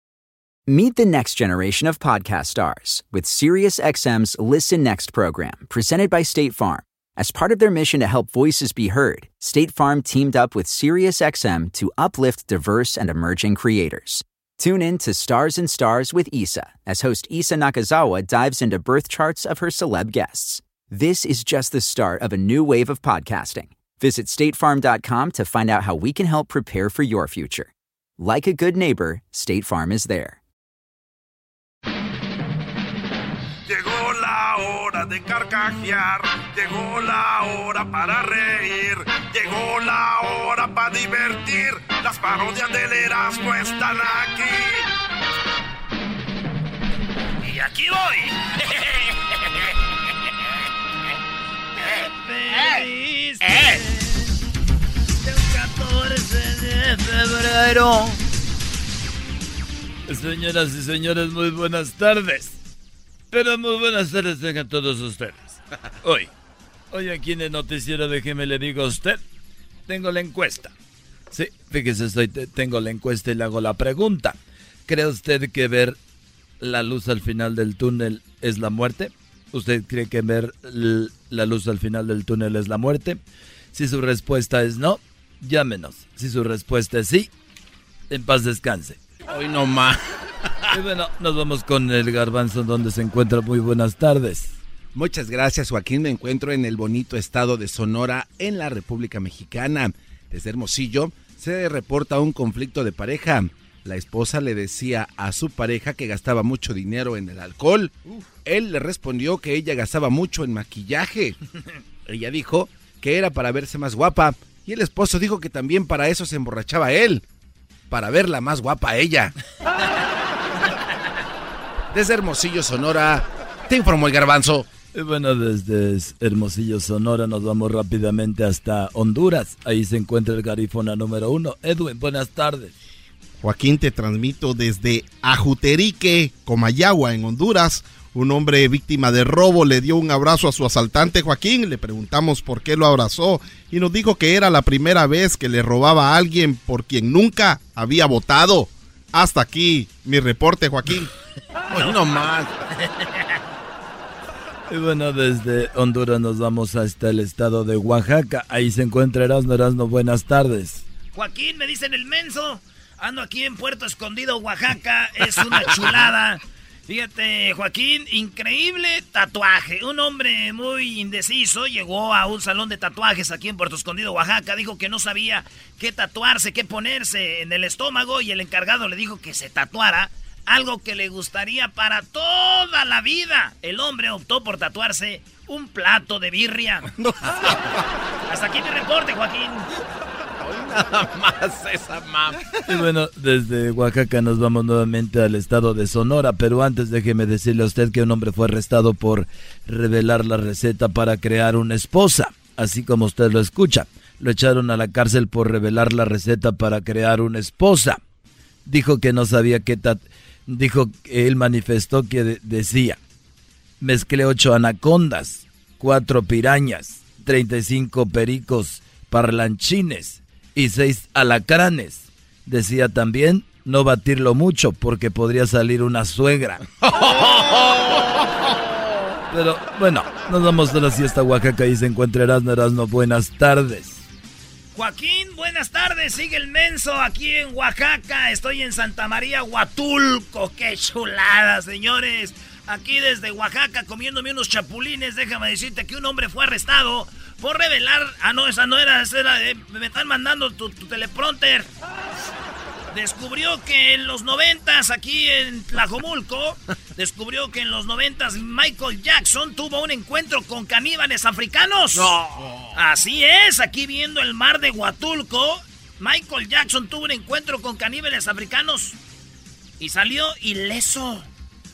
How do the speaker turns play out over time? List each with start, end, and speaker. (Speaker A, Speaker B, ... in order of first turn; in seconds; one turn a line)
Speaker A: 0.7-30.4
Speaker B: 33.7-44.8
Speaker C: 47.4-49.0
Speaker C: 51.8-54.3
Speaker C: 55.2-58.2
Speaker D: 60.0-62.5
Speaker D: 63.3-66.3
Speaker D: 66.9-69.2
Speaker D: 69.9-70.7
Speaker D: 71.3-76.0
Speaker D: 76.6-83.2
Speaker D: 83.7-87.3
Speaker D: 88.1-89.0
Speaker E: 89.3-90.0
Speaker D: 90.7-94.5
Speaker E: 94.9-111.3
Speaker E: 112.0-117.2
Speaker E: 117.9-119.3
Speaker E: 121.9-124.7
Speaker D: 124.9-132.7
Speaker F: 133.4-151.1
Speaker E: 151.7-152.5
Speaker C: 152.9-153.2
Speaker D: 154.7-160.8
Speaker C: 161.1-186.9
Speaker E: 187.0-187.5
Speaker C: 188.3-189.7
Speaker E: 190.4-192.6
Speaker D: 192.7-208.0
Speaker D: 208.6-213.0
Speaker D: 213.8-226.6
Speaker E: 226.9-227.7
Speaker D: 229.3-234.0
Speaker C: 234.7-251.7
Speaker C: 252.9-262.2
Speaker E: 261.9-262.8
Speaker C: 262.7-269.0
Speaker C: 269.8-271.3